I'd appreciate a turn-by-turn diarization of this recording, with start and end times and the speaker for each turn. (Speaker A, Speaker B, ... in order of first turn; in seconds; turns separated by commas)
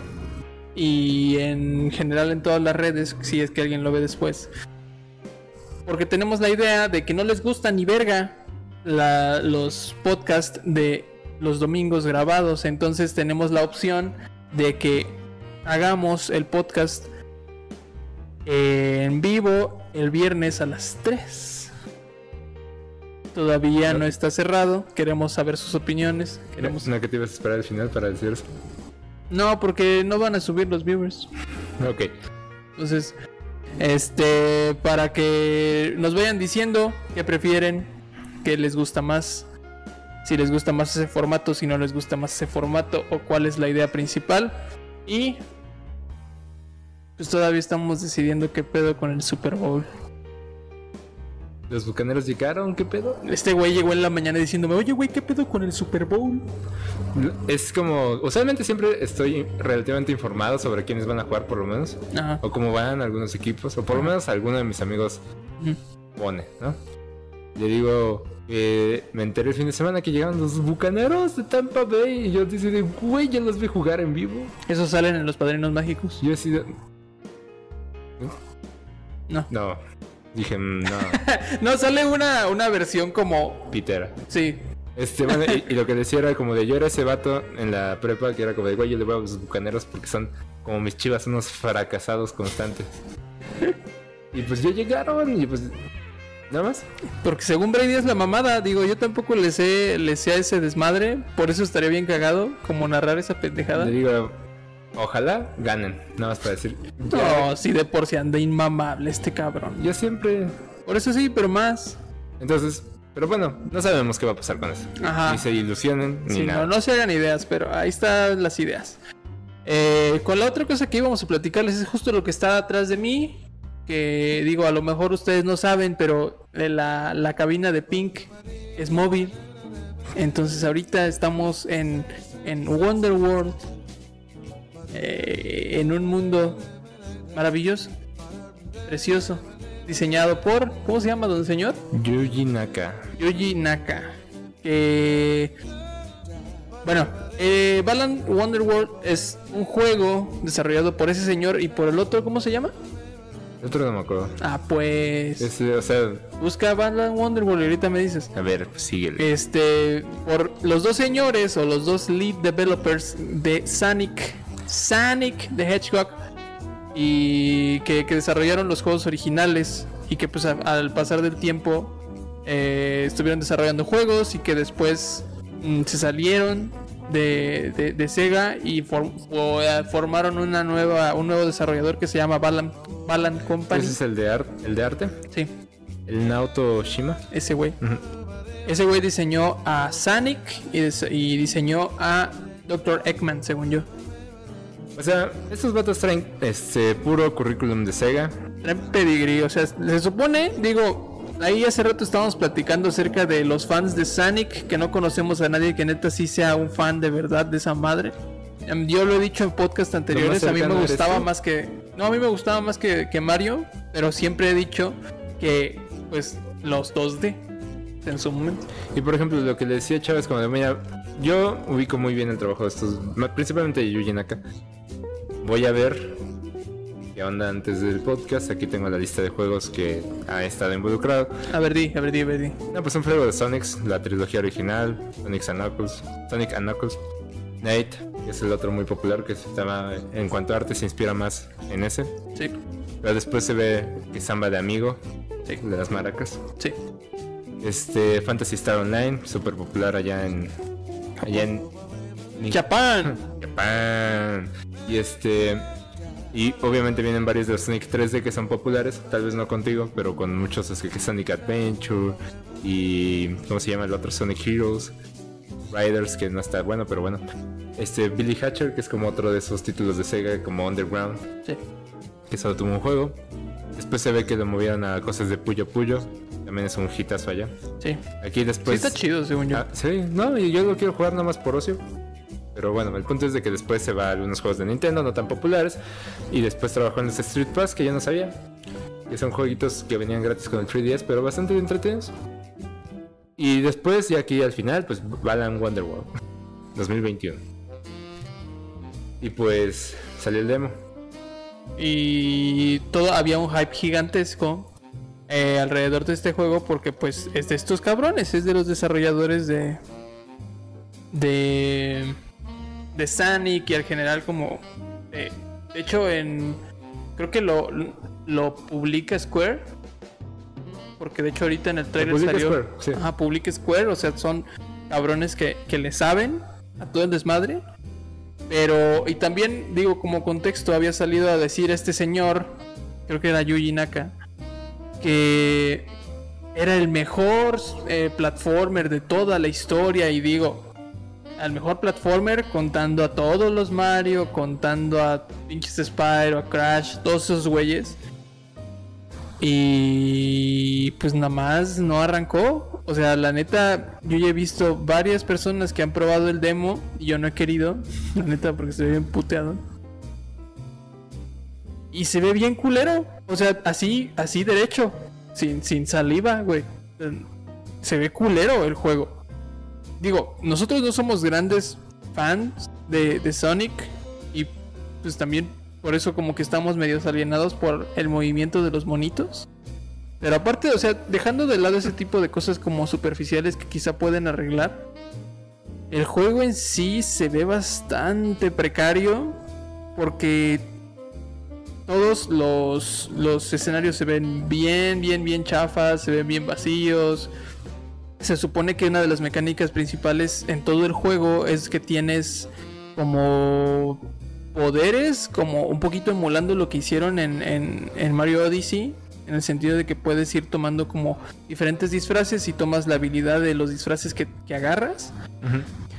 Speaker A: 0.8-4.5, Speaker A: 5.8-17.1, Speaker A: 18.5-21.7, Speaker A: 23.3-26.9, Speaker B: 26.6-28.5, Speaker A: 29.3-31.3, Speaker B: 31.8-32.1, Speaker A: 32.8-33.1, Speaker A: 33.8-39.5, Speaker A: 40.2-45.4, Speaker A: 47.2-49.9, Speaker B: 51.7-53.2, Speaker A: 53.2-56.5, Speaker B: 57.1-65.2, Speaker A: 62.1-62.4, Speaker B: 66.2-66.8, Speaker B: 67.6-74.5, Speaker A: 74.7-76.2, Speaker B: 76.2-76.7, Speaker B: 79.5-79.8, Speaker B: 80.3-81.2, Speaker A: 80.9-83.7, Speaker B: 83.7-84.2, Speaker A: 84.3-84.6, Speaker B: 85.0-93.0, Speaker A: 85.3-85.6, Speaker B: 94.3-95.8, Speaker B: 96.5-96.9, Speaker A: 97.2-104.0, Speaker B: 103.7-104.4, Speaker B: 105.0-107.5, Speaker A: 107.1-109.8, Speaker B: 109.8-110.6, Speaker A: 110.9-112.0, Speaker B: 112.4-116.7, Speaker A: 115.0-115.4, Speaker A: 116.3-119.0, Speaker A: 119.7-129.4, Speaker A: 130.2-133.6, Speaker A: 134.9-136.6, Speaker A: 137.3-137.9, Speaker A: 138.9-141.8, Speaker B: 141.9-143.1, Speaker A: 143.2-145.5, Speaker A: 146.8-152.7, Speaker B: 153.6-154.4, Speaker A: 154.4-155.5, Speaker B: 155.4-156.3, Speaker A: 156.4-158.3, Speaker B: 158.3-159.3, Speaker A: 159.2-166.2, Speaker A: 166.9-184.0, Speaker B: 183.7-185.2, Speaker B: 186.1-187.2, Speaker A: 187.3-187.8, Speaker A: 188.7-193.9, Speaker B: 195.0-198.3, Speaker A: 198.6-217.4, Speaker B: 210.1-211.3, Speaker A: 218.0-218.7, Speaker B: 218.9-224.4, Speaker B: 225.4-226.2, Speaker B: 227.2-231.3, Speaker A: 231.5-232.6, Speaker B: 232.7-237.0, Speaker B: 237.6-242.1, Speaker B: 243.0-245.0, Speaker B: 245.6-246.4, Speaker B: 247.6-250.5, Speaker B: 251.2-251.7, Speaker B: 252.4-255.7, Speaker A: 252.5-253.2, Speaker B: 256.3-264.9, Speaker B: 265.7-267.2, Speaker B: 267.8-271.2, Speaker B: 272.3-273.2, Speaker B: 273.8-277.6, Speaker B: 278.2-279.0, Speaker A: 278.6-279.7, Speaker B: 279.5-281.8, Speaker B: 282.6-285.8, Speaker B: 286.3-288.4, Speaker B: 289.1-292.1, Speaker B: 293.4-296.1, Speaker B: 296.8-297.4, Speaker B: 299.2-300.8, Speaker A: 301.8-304.7, Speaker A: 305.3-309.8, Speaker A: 311.1-312.2, Speaker A: 312.9-316.6, Speaker A: 317.2-319.7, Speaker A: 321.0-327.6, Speaker B: 322.0-323.0, Speaker A: 328.5-334.2, Speaker A: 335.0-335.9, Speaker A: 336.6-340.7, Speaker A: 341.4-348.0, Speaker A: 349.4-359.6, Speaker A: 361.9-367.3, Speaker A: 367.8-369.2, Speaker A: 370.0-379.5, Speaker A: 380.2-384.9, Speaker A: 385.9-389.4, Speaker A: 389.9-390.7, Speaker A: 391.9-397.3, Speaker A: 398.2-415.1, Speaker B: 415.4-415.7